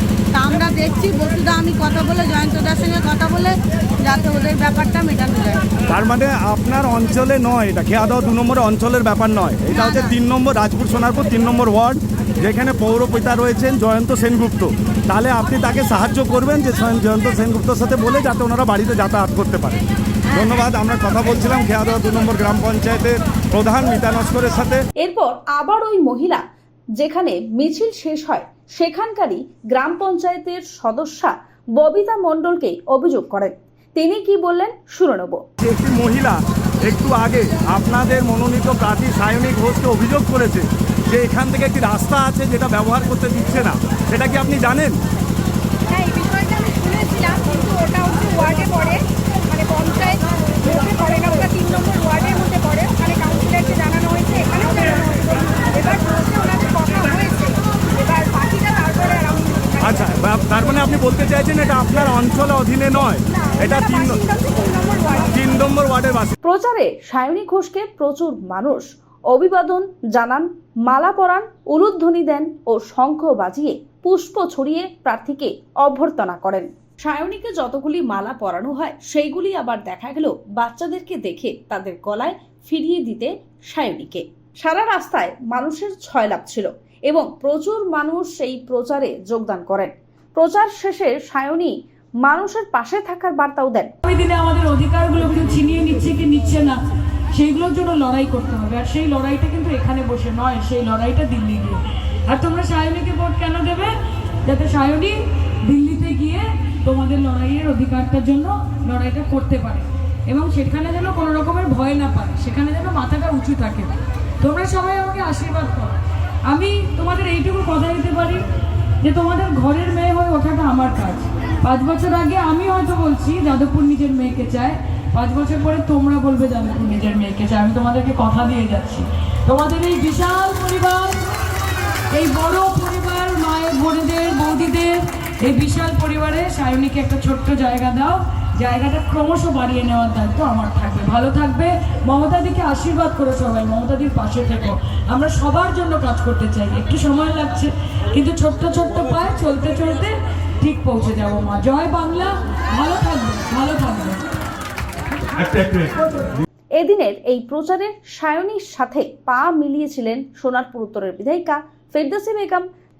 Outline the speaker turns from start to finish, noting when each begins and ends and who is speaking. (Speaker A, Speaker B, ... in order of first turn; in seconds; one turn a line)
Speaker A: 0.3-5.7
Speaker B: 5.9-24.8
Speaker A: 9.8-10.1
Speaker C: 25.0-26.4
Speaker C: 27.0-35.4
Speaker B: 35.6-45.0
Speaker D: 45.9-59.9
Speaker B: 59.8-64.2
Speaker D: 63.4-65.3
Speaker B: 65.3-66.3
Speaker C: 66.4-93.9
Speaker E: 94.0-96.8
Speaker E: 97.3-118.4
Speaker E: 119.0-131.2
Speaker E: 132.1-154.2
Speaker B: 155.3-156.1
Speaker C: 156.8-162.7